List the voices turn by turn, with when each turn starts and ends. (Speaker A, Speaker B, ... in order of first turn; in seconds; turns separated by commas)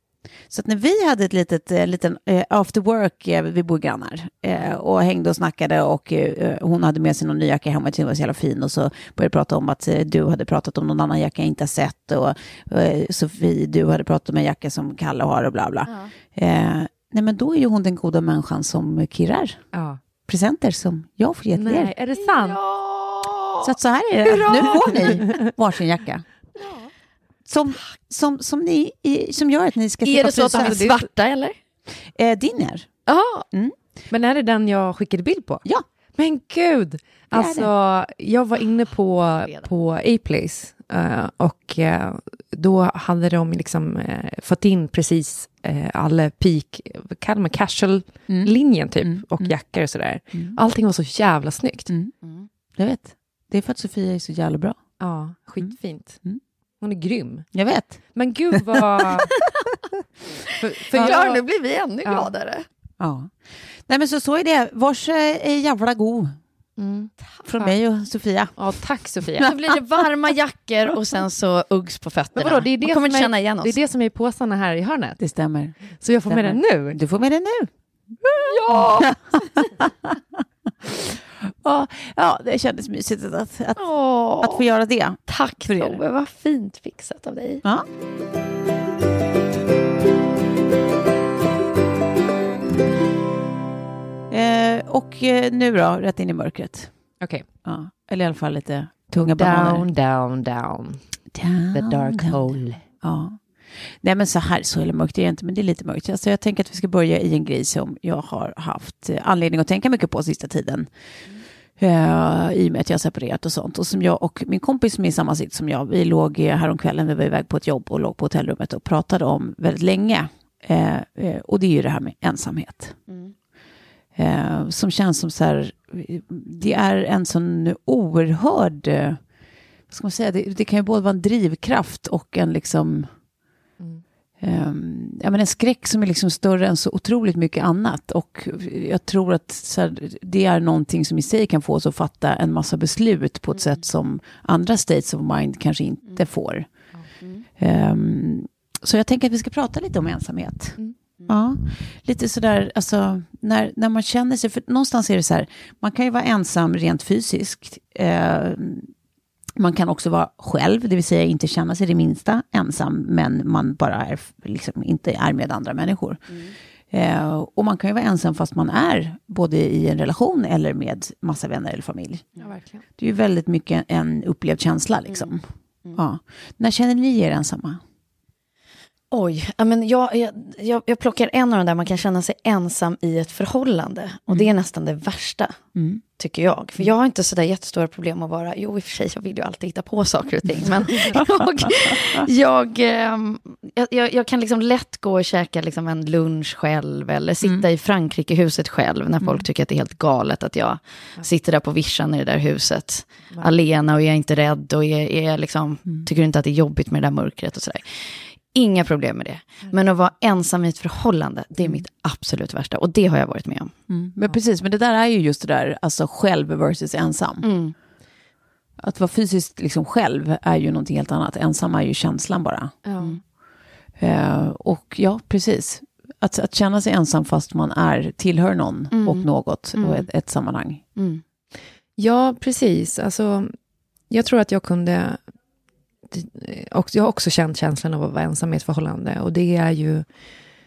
Speaker A: 0.5-19.6, Speaker B: 15.8-16.1, Speaker C: 19.7-20.0, Speaker A: 20.2-21.9, Speaker C: 21.6-22.6, Speaker B: 22.1-23.7, Speaker A: 23.6-26.2, Speaker B: 24.2-25.2, Speaker B: 26.6-26.9, Speaker A: 27.5-31.0, Speaker B: 30.0-31.5, Speaker C: 30.6-31.0, Speaker A: 32.1-32.9, Speaker B: 33.1-33.4, Speaker C: 34.1-51.9, Speaker A: 37.3-37.7, Speaker A: 48.3-49.5, Speaker B: 52.2-52.5, Speaker A: 52.8-54.8, Speaker C: 55.0-56.2, Speaker C: 56.8-57.5, Speaker A: 57.5-58.0, Speaker C: 58.1-59.3, Speaker A: 58.5-59.0, Speaker B: 59.3-59.5, Speaker C: 60.5-61.4, Speaker B: 60.8-62.6, Speaker C: 62.0-62.3, Speaker A: 63.0-66.3, Speaker C: 66.8-67.7, Speaker A: 67.5-68.7, Speaker C: 68.5-69.5, Speaker B: 69.4-73.8, Speaker C: 72.3-75.2, Speaker A: 75.2-77.7, Speaker C: 76.0-77.0, Speaker A: 78.2-80.2, Speaker B: 78.4-79.7, Speaker A: 80.8-83.8, Speaker B: 83.8-84.6, Speaker A: 84.4-86.0, Speaker B: 85.3-87.6, Speaker A: 94.3-96.9, Speaker C: 97.2-97.4, Speaker A: 97.6-99.9, Speaker C: 99.2-101.0, Speaker A: 101.3-102.4, Speaker C: 101.7-102.8, Speaker A: 103.0-103.4, Speaker A: 104.0-110.9, Speaker A: 111.8-123.0, Speaker B: 123.1-123.3, Speaker A: 124.2-129.2, Speaker A: 129.9-133.1, Speaker A: 134.4-146.7, Speaker A: 147.6-158.9, Speaker A: 159.6-166.3, Speaker B: 166.3-166.5, Speaker A: 166.9-172.3, Speaker C: 172.4-172.8, Speaker A: 173.0-175.4, Speaker A: 175.9-177.8, Speaker B: 179.1-185.6, Speaker A: 185.7-186.0, Speaker B: 186.2-213.7, Speaker A: 213.9-217.4, Speaker B: 217.4-217.7, Speaker A: 218.8-222.8, Speaker C: 222.8-223.2, Speaker A: 224.0-230.8, Speaker B: 228.9-230.1, Speaker B: 230.9-231.2, Speaker C: 232.0-233.5, Speaker C: 234.1-235.2, Speaker C: 236.1-240.1